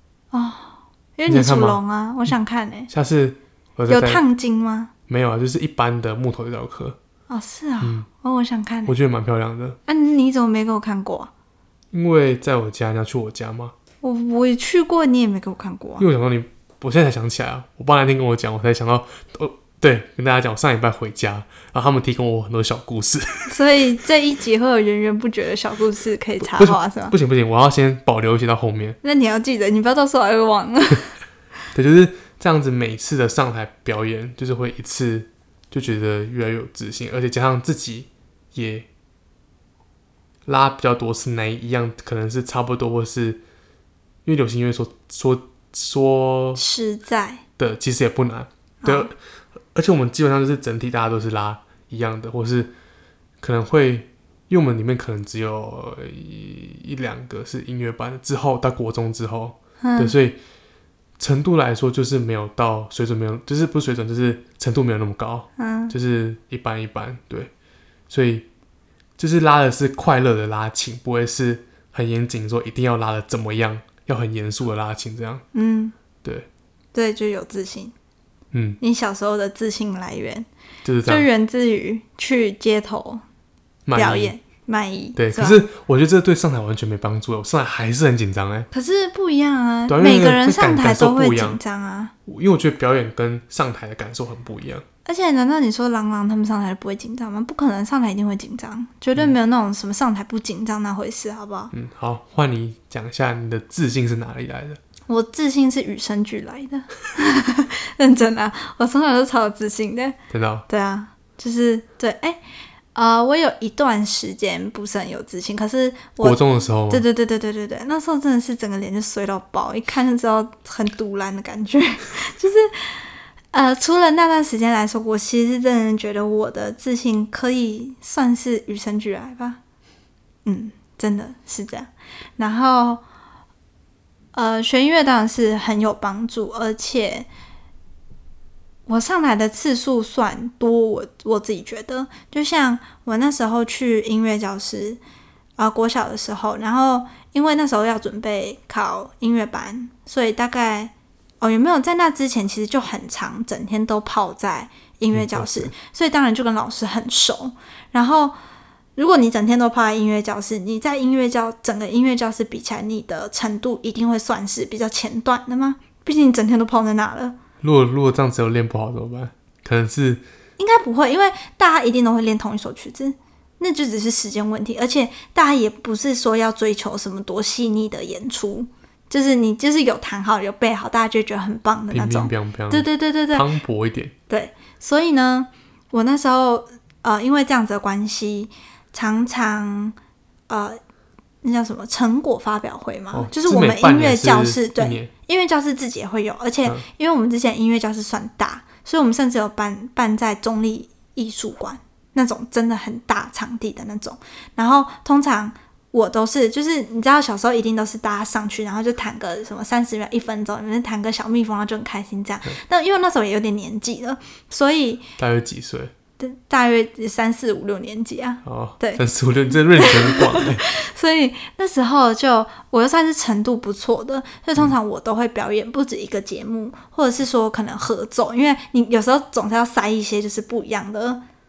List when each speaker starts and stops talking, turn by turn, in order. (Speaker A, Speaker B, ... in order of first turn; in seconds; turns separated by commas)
Speaker A: 0.3-2.9, Speaker B: 1.3-1.8, Speaker B: 2.9-4.2, Speaker A: 3.9-4.9, Speaker B: 5.1-7.0, Speaker A: 7.3-9.0, Speaker B: 7.8-8.1, Speaker B: 8.9-9.8, Speaker A: 9.9-11.3, Speaker B: 11.9-13.8, Speaker A: 14.0-16.1, Speaker B: 16.0-23.6, Speaker A: 23.5-27.1, Speaker B: 26.4-29.0, Speaker A: 29.0-31.2, Speaker B: 31.7-38.9, Speaker B: 40.5-43.4, Speaker B: 44.2-46.6, Speaker A: 46.6-47.4, Speaker B: 47.6-49.2, Speaker A: 48.8-49.1, Speaker B: 49.7-52.7, Speaker B: 53.4-60.4, Speaker A: 59.8-60.1, Speaker B: 61.2-67.5, Speaker A: 65.6-65.9, Speaker B: 68.1-68.5, Speaker B: 69.2-75.4, Speaker A: 75.5-76.0, Speaker A: 76.9-78.0, Speaker B: 78.5-78.8, Speaker A: 78.8-80.5, Speaker B: 80.8-81.3, Speaker A: 81.0-83.2, Speaker B: 83.9-84.3, Speaker A: 84.0-85.6, Speaker B: 85.2-88.7, Speaker A: 88.7-92.1, Speaker B: 89.9-91.6, Speaker B: 92.3-94.8, Speaker A: 95.0-101.7, Speaker B: 101.7-104.8, Speaker A: 105.1-110.2, Speaker B: 110.3-110.7, Speaker A: 110.7-112.4, Speaker A: 113.0-129.6, Speaker B: 116.2-117.0, Speaker A: 130.4-133.0, Speaker A: 134.3-137.3, Speaker A: 138.9-145.0, Speaker A: 145.6-158.3, Speaker B: 155.1-155.7, Speaker A: 159.0-167.4, Speaker B: 167.6-170.2, Speaker A: 170.6-183.5, Speaker B: 181.9-184.1, Speaker A: 184.3-190.0, Speaker A: 190.5-190.8, Speaker A: 191.4-215.1, Speaker B: 193.1-195.1, Speaker B: 215.2-215.9, Speaker A: 216.2-219.0, Speaker B: 218.4-220.7, Speaker A: 219.8-231.2